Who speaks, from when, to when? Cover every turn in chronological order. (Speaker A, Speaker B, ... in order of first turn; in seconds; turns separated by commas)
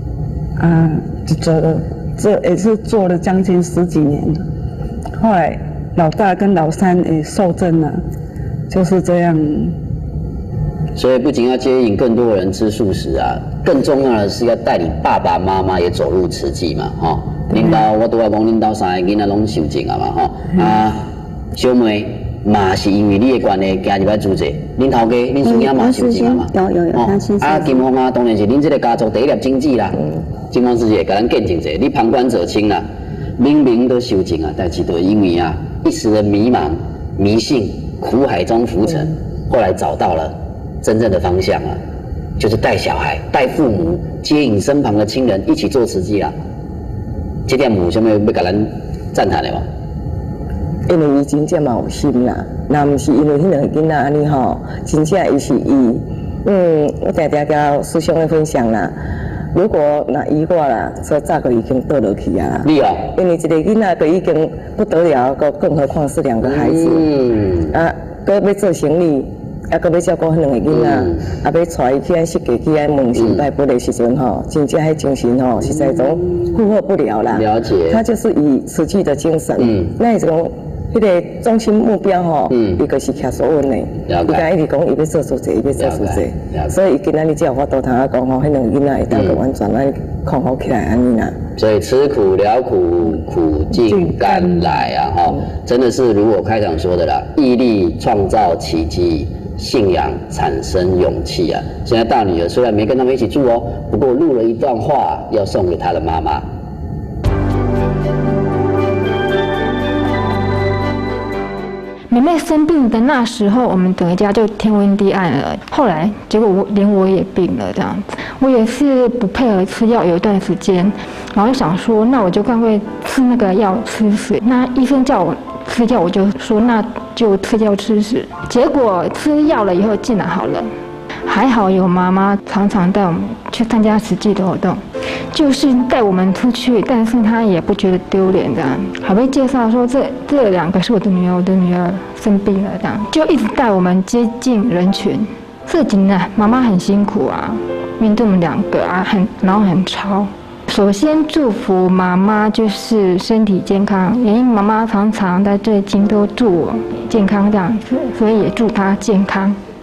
Speaker A: 0.6-4.4, Speaker A: 5.2-8.0, Speaker A: 8.7-9.8, Speaker B: 10.9-32.8, Speaker A: 17.5-17.8, Speaker A: 25.4-27.8, Speaker B: 33.4-41.8, Speaker B: 42.4-46.3, Speaker B: 47.5-49.6, Speaker C: 50.9-58.9, Speaker C: 59.5-67.1, Speaker B: 62.6-63.1, Speaker B: 66.4-67.7, Speaker C: 67.7-91.3, Speaker B: 70.7-71.2, Speaker B: 73.1-73.5, Speaker B: 75.7-76.1, Speaker B: 77.3-78.0, Speaker B: 79.6-79.9, Speaker B: 82.5-82.8, Speaker B: 84.1-84.5, Speaker B: 85.8-86.7, Speaker B: 89.1-89.4, Speaker B: 91.6-106.4, Speaker A: 93.7-94.8, Speaker D: 112.1-130.7, Speaker D: 131.2-134.8, Speaker D: 135.3-159.6